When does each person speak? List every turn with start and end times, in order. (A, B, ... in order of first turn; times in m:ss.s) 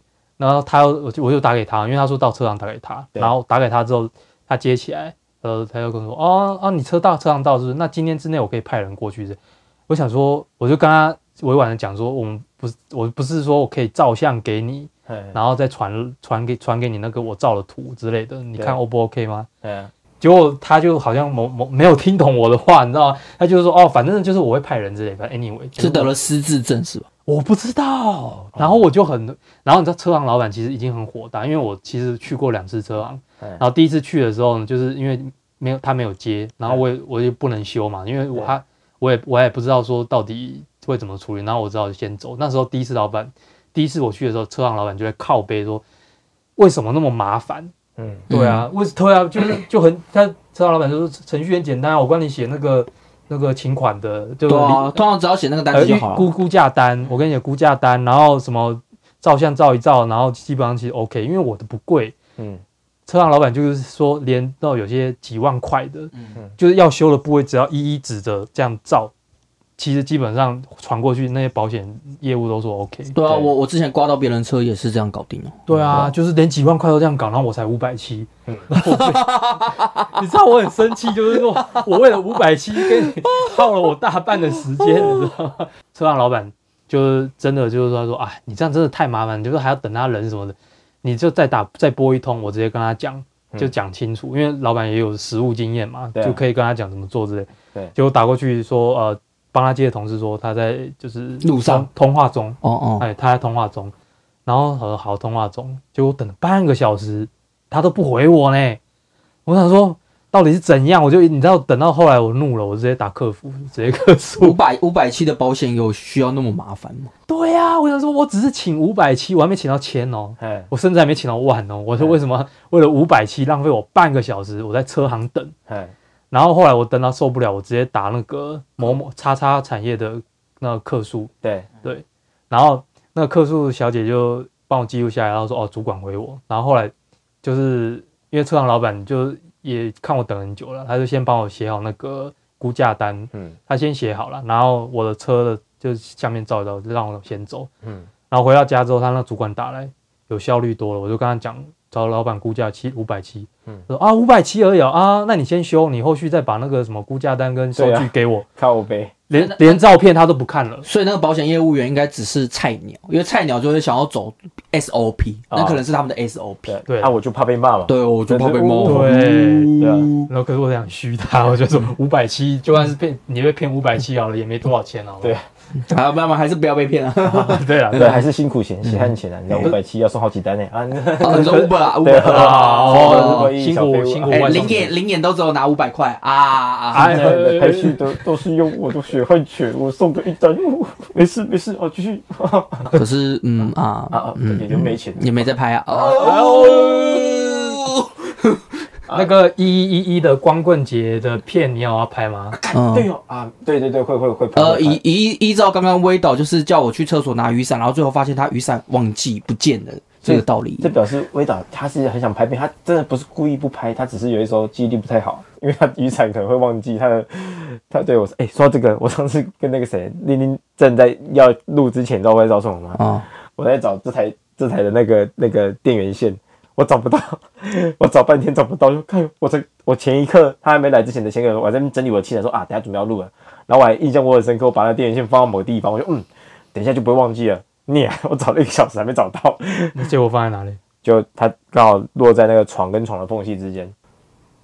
0:00.4-0:19.5 A
0:15.1-0:15.4 B
0:19.6-0:19.9 B
0:20.2-0:26.1 A
0:25.8-0:27.1 C
0:27.2-0:45.8 A
0:28.5-0:28.8 B
0:46.6-0:47.7 A
0:48.0-0:48.3 B
0:48.3-0:48.7 C
0:48.3-0:54.9 A
0:54.5-0:56.3 C
0:55.7-1:02.1 A
1:02.4-1:02.6 B
1:03.1-1:09.1 A
1:09.8-1:13.2 A
1:13.1-1:15.6 C
1:13.2-1:13.5 B
1:15.6-1:43.9 A
1:15.7-1:16.1 B
1:18.8-1:20.2 C
1:21.6-1:21.8 C
1:22.8-1:23.6 C
1:24.8-1:25.2 C
1:36.1-1:36.4 B
1:41.4-1:41.9 C
1:42.6-1:43.1 C
1:44.4-1:48.8 A
1:49.4-1:54.6 A
1:54.4-1:57.1 C
1:57.3-2:05.5 A
2:00.4-2:00.7 B
2:05.7-2:05.9 B
2:06.3-2:11.3 A
2:11.4-2:11.7 B
2:11.8-2:27.7 A
2:27.8-2:28.1 B
2:28.3-2:38.4 A
2:37.7-2:39.1 B
2:39.3-2:40.8 A
2:39.3-2:39.8 C
2:40.8-2:46.8 C
2:45.5-2:45.8 B
2:46.7-2:49.2 B
2:46.9-2:47.1 A
2:47.9-2:50.3 C
2:48.8-2:49.7 A
2:49.8-2:50.1 B
2:50.3-2:55.4 A
2:55.8-2:58.2 C
2:57.3-3:05.0 B
2:57.3-2:58.2 A
2:58.8-2:59.7 C
3:01.2-3:03.5 C
3:01.2-3:04.9 A
3:04.3-3:07.3 C
3:06.9-3:08.0 A
3:07.0-3:13.0 B
3:12.9-3:18.6 C
3:14.1-3:16.5 B
3:16.1-3:17.5 A
3:19.1-3:22.6 A
3:22.5-3:25.0 B
3:22.7-3:23.1 C
3:24.5-3:30.9 C
3:30.2-4:00.1 B
3:43.0-3:43.2 C
3:59.9-4:00.8 A
4:01.0-4:03.9 B